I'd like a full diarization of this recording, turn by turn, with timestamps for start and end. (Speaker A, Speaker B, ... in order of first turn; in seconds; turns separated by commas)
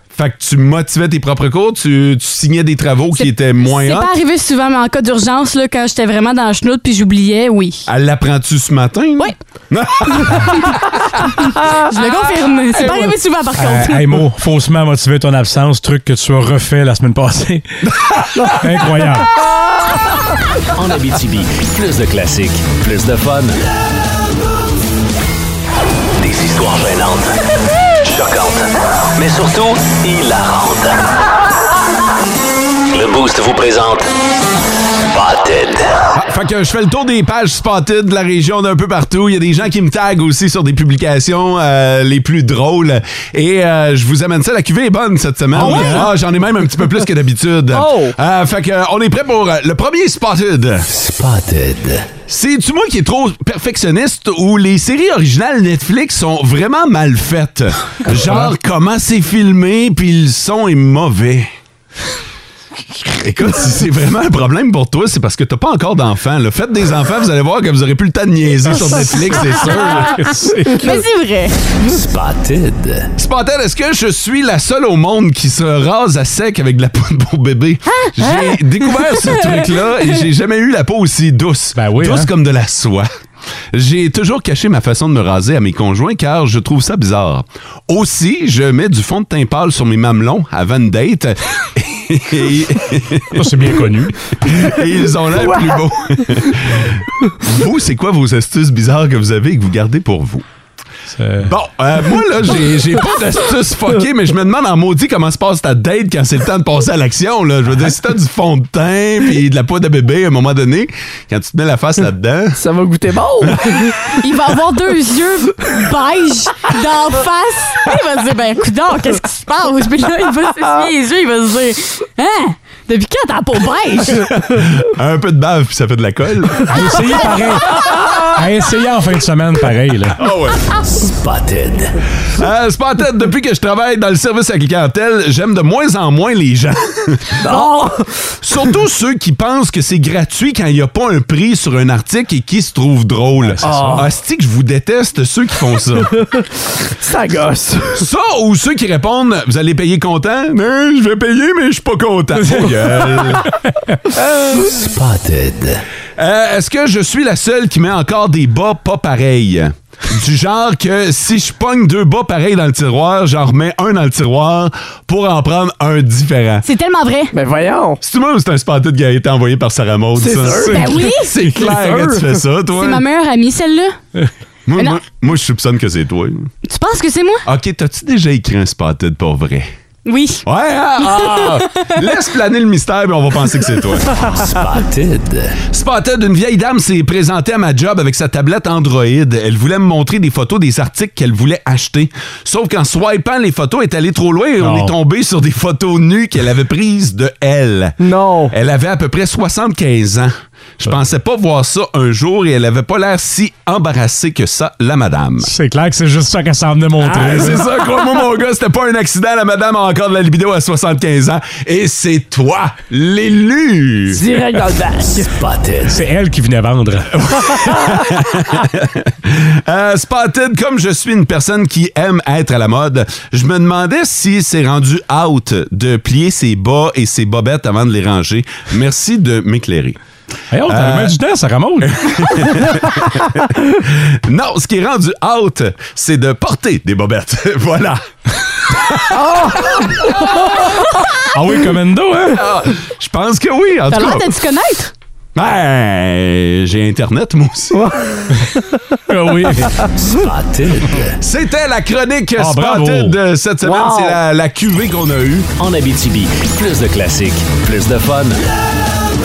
Speaker A: 0.1-4.1, Speaker B: 3.1-7.9, Speaker A: 7.9-10.8, Speaker B: 10.3-10.8, Speaker B: 11.4-14.2, Speaker C: 13.6-17.6, Speaker A: 18.1-18.4, Speaker C: 18.5-19.3, Speaker D: 20.7-23.6, Speaker D: 26.2-27.4, Speaker D: 28.0-31.1, Speaker D: 32.9-34.1, Speaker D: 35.1-36.0, Speaker A: 36.1-50.9, Speaker C: 45.6-46.1, Speaker E: 45.6-46.1, Speaker E: 47.7-48.1, Speaker D: 50.9-52.1, Speaker A: 52.3-61.5, Speaker A: 63.1-70.3, Speaker C: 70.1-70.9, Speaker B: 70.7-71.6, Speaker D: 71.8-73.1, Speaker A: 73.2-83.1, Speaker B: 78.0-78.4, Speaker B: 79.0-79.6, Speaker C: 81.8-82.3, Speaker A: 83.7-93.8, Speaker C: 93.3-94.2, Speaker A: 94.4-100.4, Speaker C: 101.1-101.5, Speaker A: 101.4-112.6, Speaker E: 112.6-113.9, Speaker A: 113.4-113.8, Speaker B: 114.2-124.3, Speaker A: 124.2-126.9, Speaker C: 126.7-130.2, Speaker A: 130.2-130.7, Speaker D: 131.0-131.9, Speaker A: 132.3-137.4, Speaker E: 137.4-138.1, Speaker A: 138.4-146.1, Speaker C: 143.4-144.1, Speaker E: 143.6-144.1, Speaker E: 147.0-148.0, Speaker A: 147.9-153.5, Speaker C: 152.6-154.0, Speaker D: 154.7-155.8, Speaker A: 156.2-166.7, Speaker B: 166.6-167.3, Speaker E: 167.3-168.0, Speaker A: 168.0-173.0, Speaker E: 170.2-172.3, Speaker C: 170.5-170.8, Speaker B: 170.8-171.3, Speaker B: 172.8-174.0, Speaker A: 174.7-176.5, Speaker B: 176.6-177.4, Speaker A: 177.4-179.7, Speaker B: 180.1-180.4, Speaker A: 180.4-184.2, Speaker B: 181.1-181.9, Speaker D: 184.2-185.6, Speaker A: 185.7-198.0, Speaker C: 194.6-194.9, Speaker E: 198.0-198.5, Speaker A: 198.5-205.5, Speaker C: 205.4-207.6, Speaker A: 207.0-214.2, Speaker E: 207.2-207.5, Speaker E: 214.1-215.3, Speaker D: 215.3-215.9, Speaker C: 215.9-217.2, Speaker A: 217.1-230.0, Speaker C: 230.5-232.5, Speaker A: 230.7-231.2, Speaker A: 231.8-238.0, Speaker A: 238.6-239.9, Speaker E: 239.1-240.1, Speaker C: 241.3-242.4, Speaker A: 242.3-244.3, Speaker B: 243.9-244.9, Speaker A: 245.3-247.8, Speaker E: 247.7-248.9, Speaker C: 249.1-249.8, Speaker D: 250.0-251.2, Speaker A: 251.2-255.5, Speaker C: 252.4-253.1, Speaker E: 253.6-254.2, Speaker D: 255.6-258.4